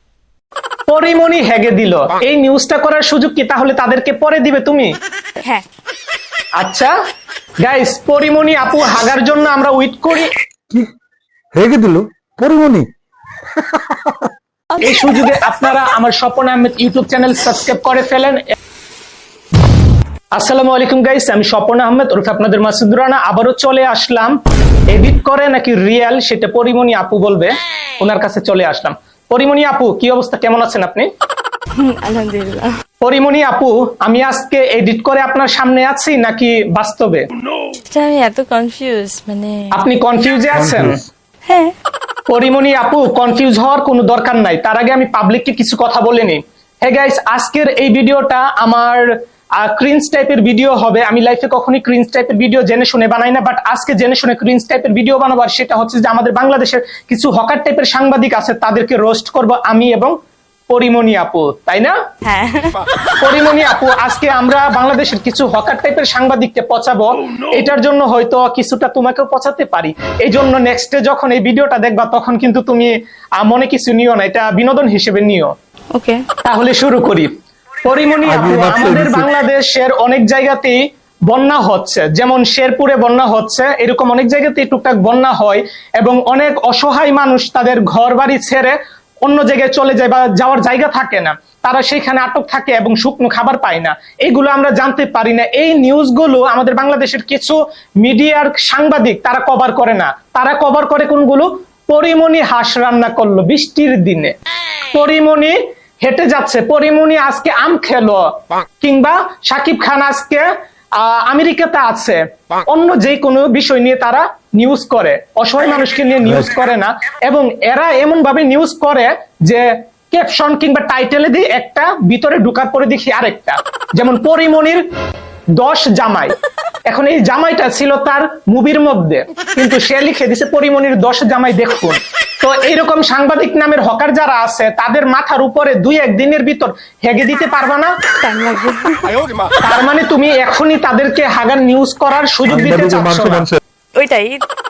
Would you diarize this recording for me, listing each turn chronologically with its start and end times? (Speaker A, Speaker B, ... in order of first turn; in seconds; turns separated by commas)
Speaker A: 0.9-4.9, Speaker A: 6.6-6.9, Speaker A: 7.6-10.3, Speaker B: 11.6-12.9, Speaker B: 13.6-14.3, Speaker A: 14.8-18.4, Speaker A: 20.3-24.3, Speaker A: 24.9-31.1, Speaker C: 31.8-32.7, Speaker A: 33.0-37.2, Speaker C: 37.8-39.7, Speaker A: 39.7-41.0, Speaker B: 40.5-41.0, Speaker C: 41.5-41.7, Speaker A: 42.3-60.1, Speaker A: 60.7-62.0, Speaker C: 62.2-62.8, Speaker A: 63.2-75.5, Speaker C: 75.9-76.2, Speaker A: 76.4-77.3, Speaker A: 77.8-80.8, Speaker B: 78.2-79.3, Speaker A: 81.3-104.3, Speaker A: 104.9-110.5, Speaker A: 111.0-124.8, Speaker B: 116.2-116.5, Speaker A: 125.6-126.3, Speaker A: 126.9-137.9, Speaker C: 138.2-139.2, Speaker A: 139.6-143.5, Speaker B: 142.5-143.6, Speaker C: 144.0-144.4